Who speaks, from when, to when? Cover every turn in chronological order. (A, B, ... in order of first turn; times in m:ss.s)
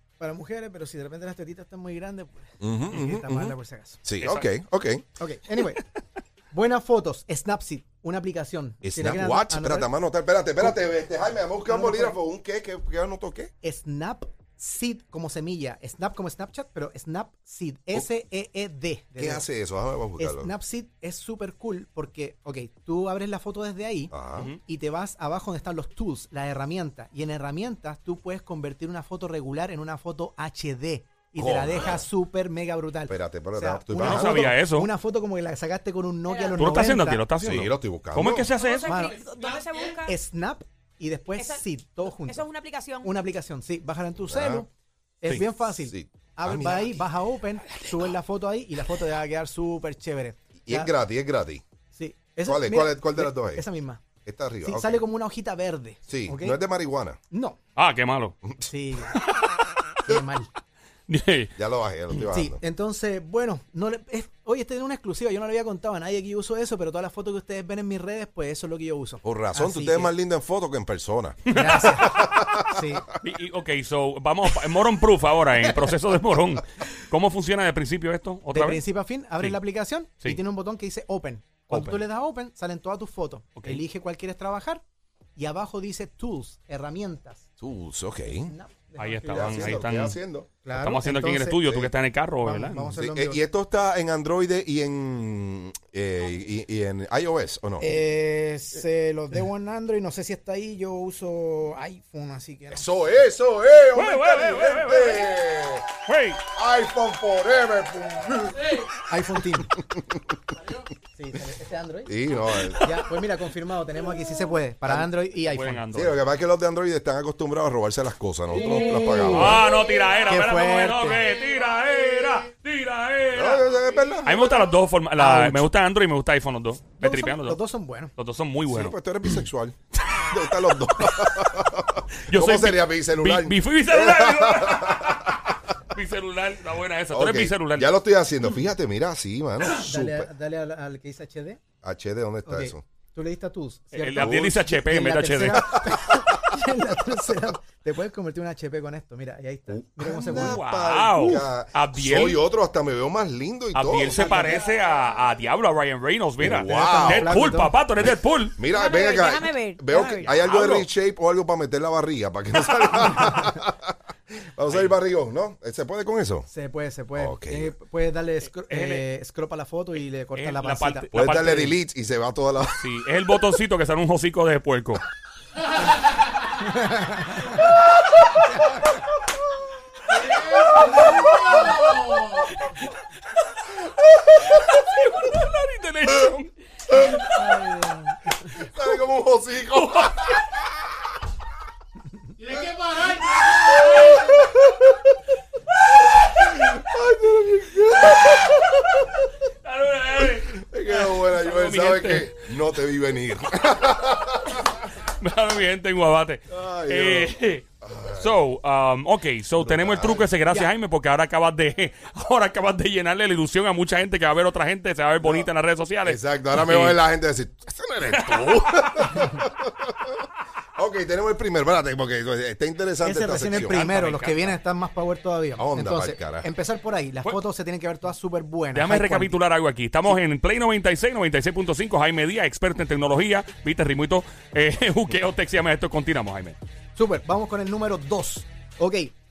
0:00.2-0:04.0 A
0:02.6-0:05.0 B
0:04.2-0:04.5 C
0:05.2-0:05.8 A
0:06.5-0:09.9 A
0:08.8-0:13.5 B
0:11.6-0:12.2 A
0:13.6-0:19.5 A
0:19.2-0:20.5 B
0:20.2-0:37.2 A
0:24.1-0:24.5 B
0:31.4-0:32.0 B
0:33.1-0:34.5 B
0:34.0-0:34.9 C
0:36.3-0:36.7 D
0:36.5-0:39.0 C
0:37.4-0:38.5 B
0:38.6-0:40.1 D
0:38.8-0:39.2 A
0:40.0-0:42.5 A
0:41.4-0:43.1 D
0:43.0-0:44.7 A
0:44.3-0:44.6 B
0:45.2-0:50.9 A
0:45.8-0:47.0 B
0:50.6-0:51.6 B
0:51.9-0:54.0 A
0:52.4-0:53.6 B
0:54.2-0:55.0 B
0:54.6-0:56.6 A
0:56.1-0:57.2 B
0:57.3-0:57.6 A
0:57.8-0:58.4 C
0:58.4-0:58.7 B
0:58.7-0:59.2 A
1:00.0-1:00.5 A
1:01.1-1:01.5 C
1:01.6-1:02.6 B
1:02.3-1:10.1 A
1:09.2-1:13.0 B
1:11.5-1:12.0 C
1:11.5-1:13.1 A
1:13.2-1:18.8 C
1:18.5-1:24.8 A
1:21.7-1:22.0 C
1:23.6-1:23.8 C
1:25.4-1:27.5 A
1:27.6-1:28.5 B
1:28.4-1:29.9 A
1:29.0-1:30.2 C
1:29.3-1:30.5 B
1:30.6-1:31.6 A
1:30.7-1:33.0 C
1:31.6-1:31.9 B
1:32.4-1:33.4 A
1:33.0-1:37.9 B
1:37.8-1:42.9 A
1:42.7-1:45.9 B
1:43.9-1:45.3 C
1:46.0-1:46.4 C
1:46.5-1:48.8 B
1:49.1-1:49.7 A
1:49.8-1:50.2 B
1:51.1-1:52.1 A
1:52.0-1:52.9 B
1:52.8-1:55.9 A
1:55.4-1:56.2 C
1:55.9-1:59.6 B
1:59.1-1:59.5 A
1:59.3-2:03.7 C
2:00.2-2:01.2 A
2:03.3-2:04.7 B
2:04.2-2:07.6 C
2:05.2-2:05.7 A
2:07.0-2:08.1 A
2:08.2-2:09.4 C
2:08.7-2:09.8 B
2:10.0-2:11.3 C
2:10.3-2:15.5 B
2:12.2-2:17.9 C
2:17.1-2:20.3 B
2:19.8-2:21.6 A
2:21.8-2:22.8 B
2:22.4-2:30.6 A
2:23.9-2:25.6 C
2:24.2-2:24.6 B
2:25.5-2:26.0 B
2:29.7-2:34.4 B
2:30.2-2:32.4 C
2:33.7-2:38.6 C
2:34.1-2:34.6 A
2:36.4-2:37.3 B
2:36.7-2:37.7 A
2:38.0-2:43.9 B
2:38.7-2:40.3 D
2:40.2-2:40.9 C
2:44.5-2:46.5 B
2:44.7-2:44.9 C
2:46.5-2:51.1 A
2:47.1-2:47.7 B
2:48.7-2:49.0 C
2:50.3-2:51.8 C
2:51.1-2:52.9 B
2:52.8-2:55.0 C
2:56.5-2:57.8 A
2:58.3-2:58.6 A
3:00.2-3:01.0 B
3:00.9-3:01.8 C
3:02.4-3:02.9 C
3:03.6-3:07.7 C
3:07.5-3:08.1 A
3:08.4-3:10.8 B
3:09.7-3:10.4 C
3:12.4-3:15.2 B
3:13.9-3:14.2 C
3:16.2-3:19.3 B
3:19.6-3:22.4 C
3:20.4-3:24.6 B
3:24.5-3:37.0 C
3:26.5-3:28.3 B
3:29.6-3:30.3 B
3:36.0-3:40.1 B
3:38.1-3:38.6 C
3:40.8-3:43.8 B
3:43.0-3:49.4 A
3:43.6-3:44.6 C
3:45.6-3:46.5 B
3:48.7-3:56.6 C
3:56.9-3:59.1 A